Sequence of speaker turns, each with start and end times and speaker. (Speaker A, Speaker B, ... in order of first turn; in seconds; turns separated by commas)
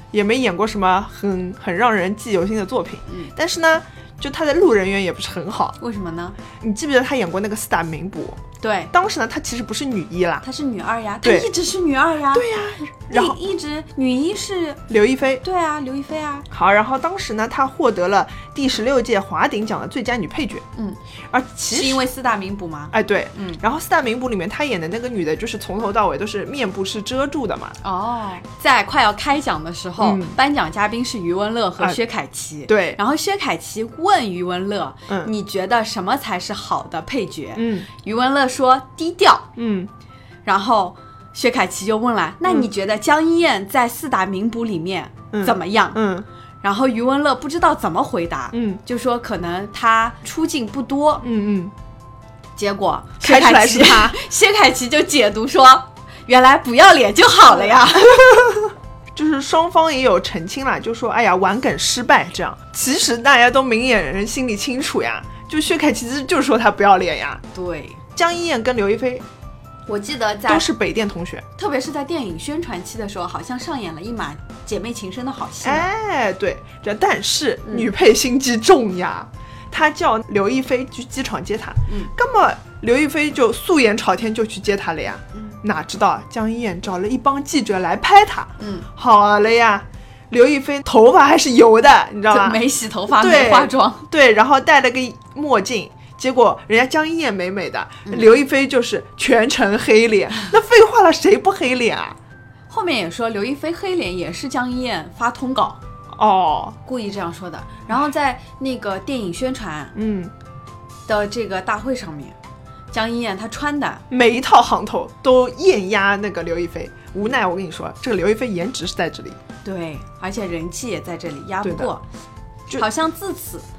Speaker A: 0.1-5.8, Speaker B: 3.1-3.3, Speaker B: 5.8-6.4, Speaker A: 6.6-10.4, Speaker B: 8.6-8.9, Speaker B: 10.4-12.5, Speaker A: 11.2-11.5, Speaker A: 12.3-13.4, Speaker B: 13.1-14.8, Speaker A: 14.9-15.4, Speaker B: 15.4-16.5, Speaker A: 16.5-20.6, Speaker A: 21.3-22.0, Speaker B: 21.7-23.6, Speaker A: 22.9-27.8, Speaker B: 27.8-39.5, Speaker A: 30.0-30.4, Speaker A: 32.7-33.0, Speaker A: 37.6-37.9, Speaker A: 39.6-39.9, Speaker B: 40.5-46.0, Speaker A: 42.5-42.7, Speaker A: 45.3-46.3, Speaker B: 46.6-51.3, Speaker A: 48.5-48.8, Speaker A: 51.2-51.7, Speaker B: 52.6-58.2, Speaker A: 53.2-54.2, Speaker A: 57.5-67.4, Speaker B: 67.5-68.0, Speaker A: 68.2-69.2, Speaker B: 69.9-70.7, Speaker A: 70.5-71.5, Speaker B: 71.6-75.9, Speaker A: 75.6-102.2, Speaker B: 88.6-88.9, Speaker B: 92.3-94.1, Speaker B: 98.0-98.3, Speaker B: 102.7-105.8, Speaker A: 106.2-106.8, Speaker B: 106.9-109.9, Speaker A: 110.0-110.3, Speaker B: 111.1-112.3, Speaker B: 112.9-114.0, Speaker A: 114.1-119.4, Speaker B: 119.7-122.0, Speaker A: 121.6-121.9, Speaker B: 122.7-123.7